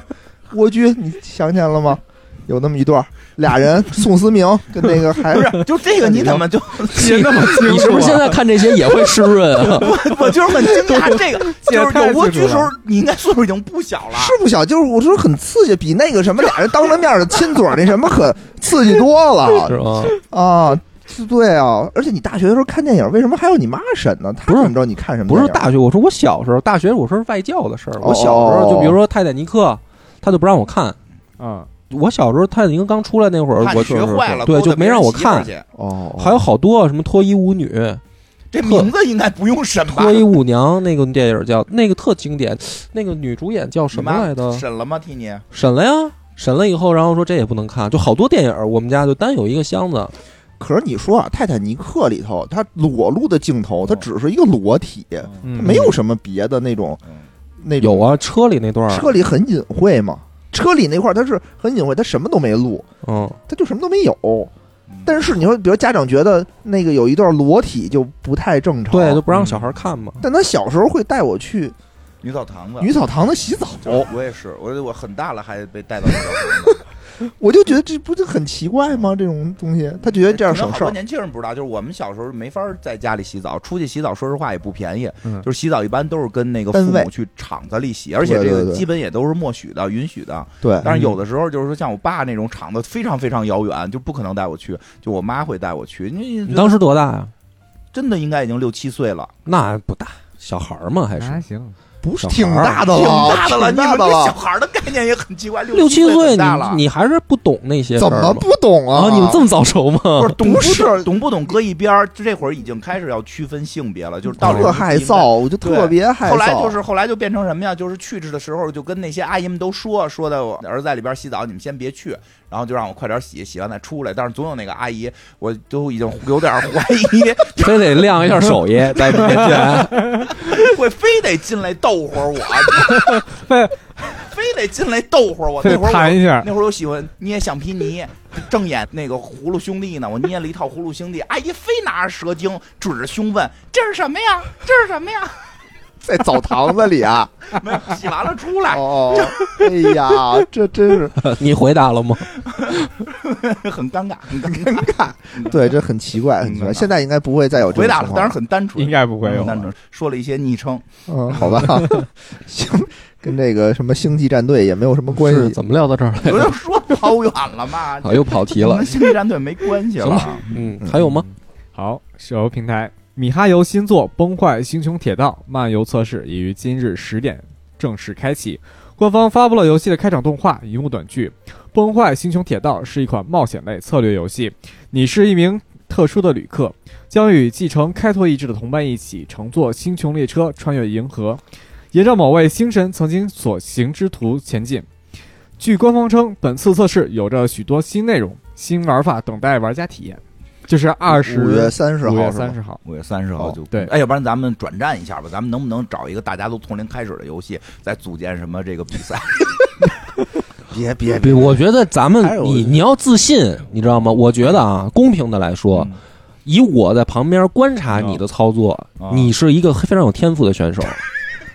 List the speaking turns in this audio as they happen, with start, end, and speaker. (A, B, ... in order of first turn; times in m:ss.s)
0:00.5-0:06.5 A
0:05.2-0:08.0 B
0:06.9-0:10.0 C
0:06.9-0:08.4 D
0:09.6-0:14.4 B
0:10.7-0:12.7 D
0:14.1-0:25.7 A
0:19.6-0:20.1 C
0:24.5-0:24.7 C
0:25.3-0:31.0 C
0:28.0-0:29.0 A
0:31.4-0:31.7 D
0:31.9-0:35.5 C
0:33.6-0:35.6 B
0:35.7-0:36.5 A
0:36.2-0:38.0 C
0:38.5-0:40.3 B
0:38.6-0:38.9 C
0:39.8-0:44.6 C
0:43.9-0:45.4 B
0:45.5-0:50.1 C
0:50.6-0:57.0 A
0:55.4-0:55.8 D
0:55.6-0:56.0 C
0:57.6-0:58.1 A
0:57.8-0:59.1 C
0:58.9-1:02.8 A
1:03.0-1:03.4 C
1:03.5-1:04.5 A
1:04.9-1:05.2 B
1:05.0-1:09.2 A
1:08.9-1:10.2 C
1:09.3-1:09.6 D
1:10.2-1:11.8 A
1:12.2-1:12.9 B
1:12.8-1:14.1 A
1:13.8-1:16.8 B
1:17.2-1:21.0 A
1:20.1-1:36.8 B
1:26.7-1:27.1 A
1:28.2-1:28.9 A
1:30.6-1:30.9 A
1:30.9-1:31.1 D
1:36.5-1:37.3 C
1:37.9-1:39.3 B
1:39.4-1:41.4 C
1:41.2-1:41.7 D
1:42.0-1:44.4 A
1:42.2-1:42.9 C
1:42.8-1:46.8 B
1:45.7-1:50.4 C
1:47.9-1:49.4 A
1:50.2-2:13.3 B
1:50.4-1:51.1 A
1:54.4-1:56.8 A
1:54.4-1:54.7 C
2:07.6-2:10.1 C
2:09.4-2:10.6 D
2:12.8-2:14.0 D
2:14.0-2:25.5 B
2:15.6-2:16.5 D
2:26.0-2:27.5 A
2:27.5-2:29.5 B
2:28.7-2:31.3 A
2:31.2-2:32.4 C
2:32.4-2:35.7 B
2:34.4-2:38.4 A
2:36.4-2:36.9 B
2:37.6-2:41.6 B
2:38.8-2:39.7 D
2:39.2-2:39.5 A
2:41.1-2:45.6 A
2:41.5-2:42.1 D
2:45.1-2:46.6 C
2:46.2-2:50.7 B
2:48.0-2:49.1 C
2:50.0-2:51.2 C
2:50.9-3:11.4 D
3:11.9-3:14.9 D
3:15.6-3:22.8 D
3:21.1-3:22.6 A
3:22.8-3:29.7 B
3:30.7-3:31.7 A
3:31.2-3:35.9 C
3:32.2-3:32.8 A
3:35.7-3:36.0 B
3:36.4-3:41.0 C
3:37.9-3:38.2 B
3:39.0-3:39.3 B